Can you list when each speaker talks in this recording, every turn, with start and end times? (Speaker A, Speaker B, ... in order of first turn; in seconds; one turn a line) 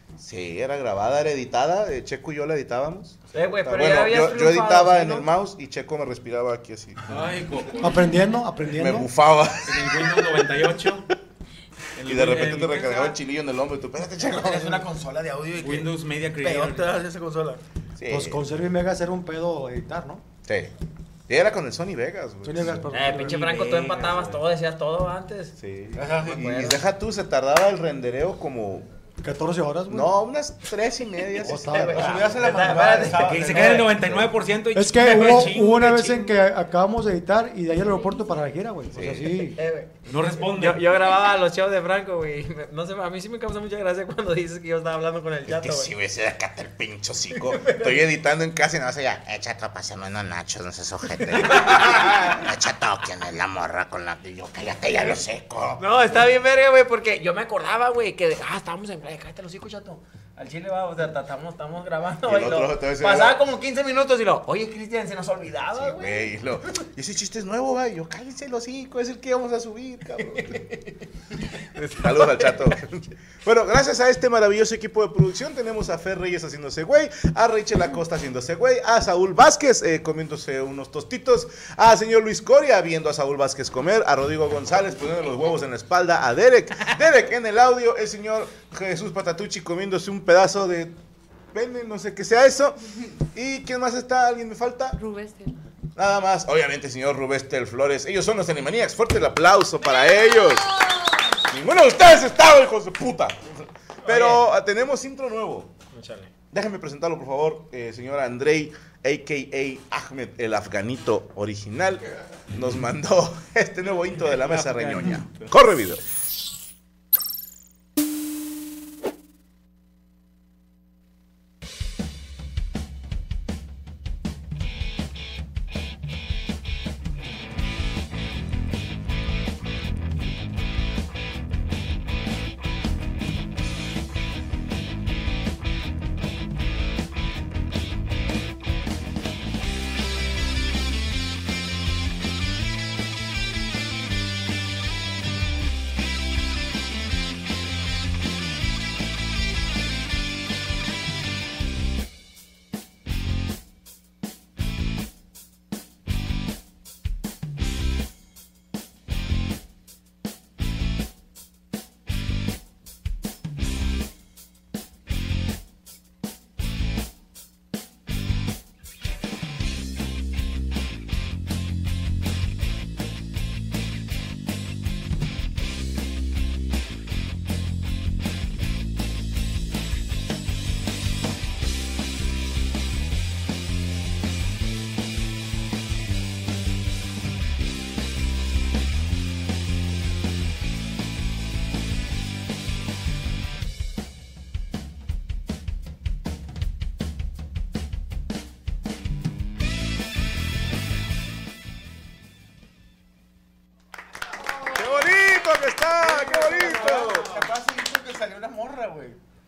Speaker A: 0.2-7.1
Speaker B: 3.3-5.3
Speaker C: 7.1-8.1
Speaker D: 7.8-9.1
Speaker A: 8.7-10.4
Speaker C: 9.7-11.0
Speaker C: 11.9-13.1
Speaker A: 12.1-14.9
Speaker E: 14.2-17.6
Speaker C: 15.6-16.9
Speaker A: 18.0-18.4
Speaker D: 18.1-20.2
Speaker A: 20.4-20.7
Speaker A: 21.3-22.9
Speaker D: 22.4-23.4
Speaker B: 22.9-25.5
Speaker C: 23.1-24.4
Speaker A: 25.6-28.9
Speaker E: 25.9-26.8
Speaker D: 29.2-30.1
Speaker A: 29.9-32.1
Speaker D: 31.4-32.1
Speaker B: 31.6-33.8
Speaker E: 31.8-34.0
Speaker C: 33.1-36.4
Speaker A: 33.9-34.3
Speaker D: 34.7-39.6
Speaker A: 38.9-39.5
Speaker B: 39.5-45.9
Speaker C: 40.1-40.9
Speaker A: 45.5-55.8
Speaker B: 47.3-48.0
Speaker B: 55.8-66.3
Speaker A: 62.2-63.4
Speaker A: 65.8-70.6
Speaker B: 70.2-70.9
Speaker A: 71.9-90.9
Speaker B: 71.9-72.5
Speaker A: 91.5-95.0
Speaker F: 94.9-95.5
Speaker A: 96.0-100.8
Speaker F: 99.9-101.2
Speaker A: 101.5-105.7
Speaker B: 104.0-104.4
Speaker B: 105.9-106.3
Speaker A: 106.5-116.0
Speaker C: 114.4-115.5
Speaker A: 204.7-207.5
Speaker E: 206.0-209.2